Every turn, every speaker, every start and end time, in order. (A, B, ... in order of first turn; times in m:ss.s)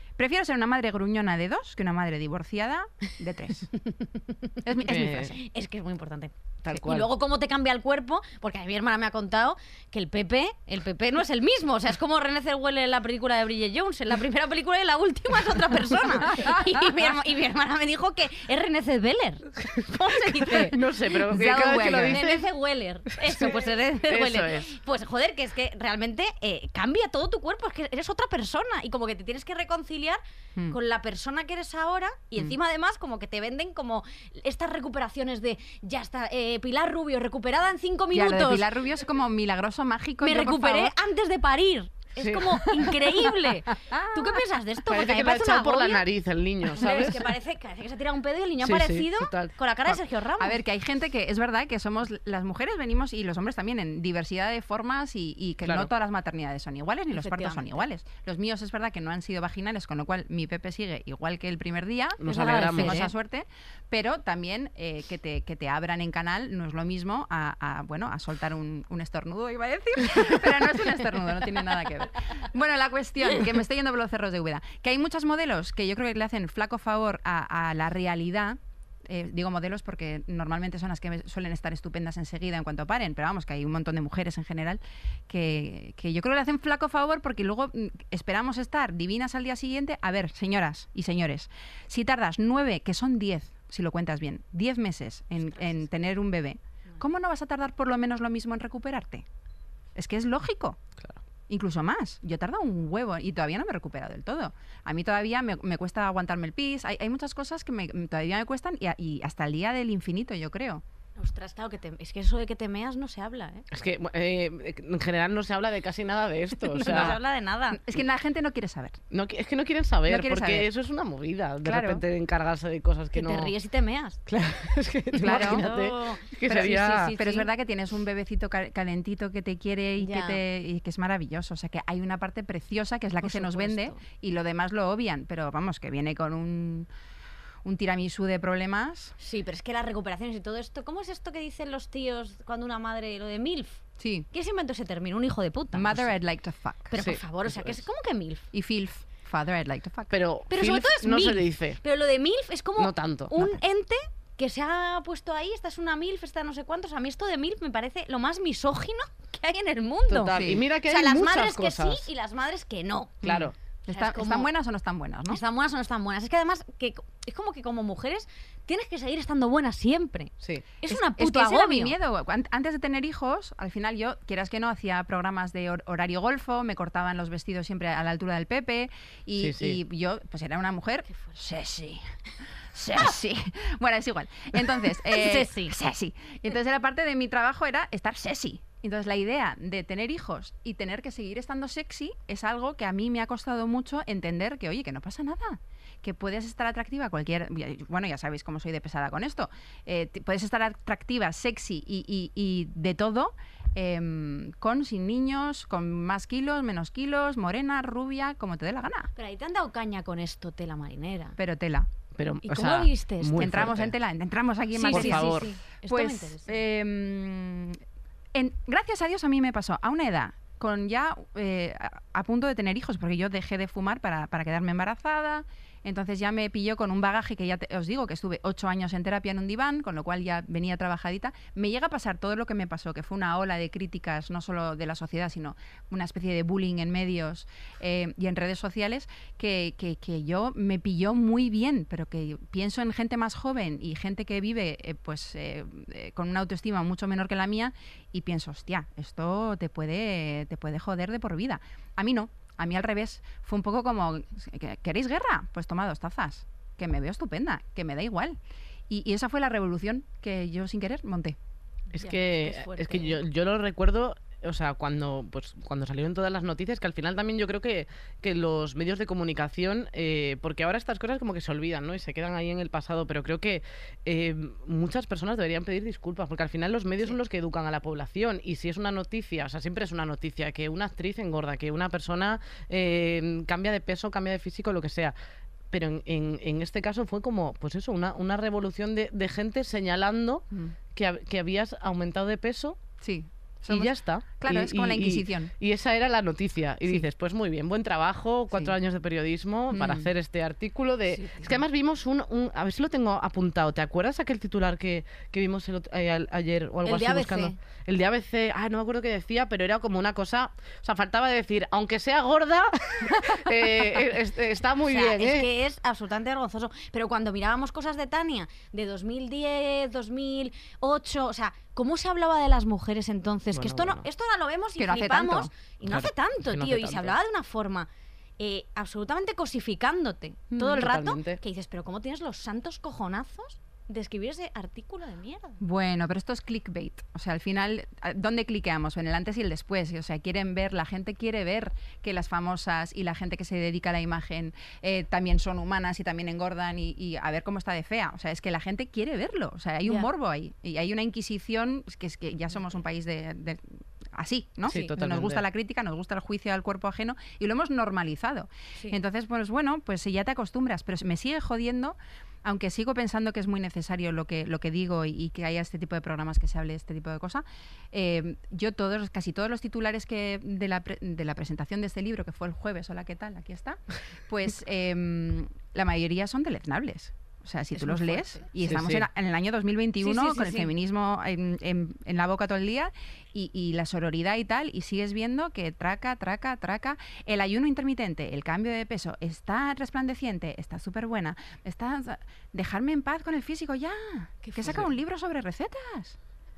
0:00.2-0:03.7 A
0:03.8-0:20.8 B
0:04.6-0:05.4 A
0:04.8-0:05.3 C
0:06.6-0:07.1 C
0:20.3-0:22.4 C
0:21.2-0:22.2 A
0:21.7-0:38.7 B
0:23.2-0:24.7 C
0:38.1-0:40.9 A
0:40.2-0:46.0 B
0:42.2-0:42.8 C
0:43.9-0:44.2 A
0:44.9-0:47.3 C
0:46.8-0:50.6 B
0:48.6-0:49.5 C
0:50.4-1:39.2 A
0:55.6-0:55.9 C
0:57.1-0:57.8 B
1:02.2-1:03.0 C
1:02.2-1:03.1 B
1:35.5-1:35.8 B
1:39.9-1:40.8 A
1:41.5-1:50.8 A
1:51.2-1:53.6 B
1:53.7-1:57.2 C
1:56.7-1:57.8 B
1:56.8-1:57.2 A
1:57.7-1:59.0 A
1:59.1-2:03.5 C
2:00.1-2:00.7 A
2:01.6-2:02.0 A
2:03.1-2:04.2 B
2:04.3-2:07.1 C
2:05.1-2:07.5 B
2:05.2-2:05.6 A
2:06.5-2:16.9 A
2:10.0-2:10.4 B
2:13.2-2:14.0 B
2:17.6-2:19.1 A
2:19.2-2:23.8 B
2:24.0-2:24.3 A
2:24.3-2:26.1 B
2:25.7-2:26.9 A
2:26.9-2:28.4 B
2:27.0-2:27.8 C
2:28.5-2:30.1 A
2:30.1-2:31.8 C
2:30.5-2:43.2 B
2:32.8-2:33.3 C
2:40.1-2:42.1 C
2:40.3-2:40.6 A
2:43.2-2:43.5 C
2:43.2-2:45.4 A
2:43.9-2:44.5 B
2:45.3-2:51.9 B
2:50.9-3:02.0 A
2:59.4-2:59.8 C
3:02.7-3:29.1 A
3:04.9-3:05.7 B
3:29.2-3:31.4 B
3:31.4-3:31.9 A
3:32.2-3:33.9 C
3:32.4-3:33.6 B
3:33.4-3:37.8 A
3:34.7-3:36.5 B
3:34.9-3:35.5 C
3:38.3-4:18.4 A
4:18.9-4:21.4 A
4:21.9-4:45.1 C
4:21.9-4:23.2 B
4:45.7-4:52.8 C
4:53.0-4:55.5 A
4:53.7-5:15.5 C
4:59.7-5:00.1 A
5:06.8-5:07.6 B
5:14.8-5:27.9 B
5:23.5-5:24.0 C
5:24.8-5:25.5 A
5:25.8-5:27.1 C
5:28.4-5:35.6 B
5:30.6-5:31.4 C
5:35.6-6:36.2 A
5:54.7-5:55.4 C
6:17.8-6:18.5 B
6:18.6-6:19.1 C
6:20.0-6:20.7 B
6:34.4-6:34.8 B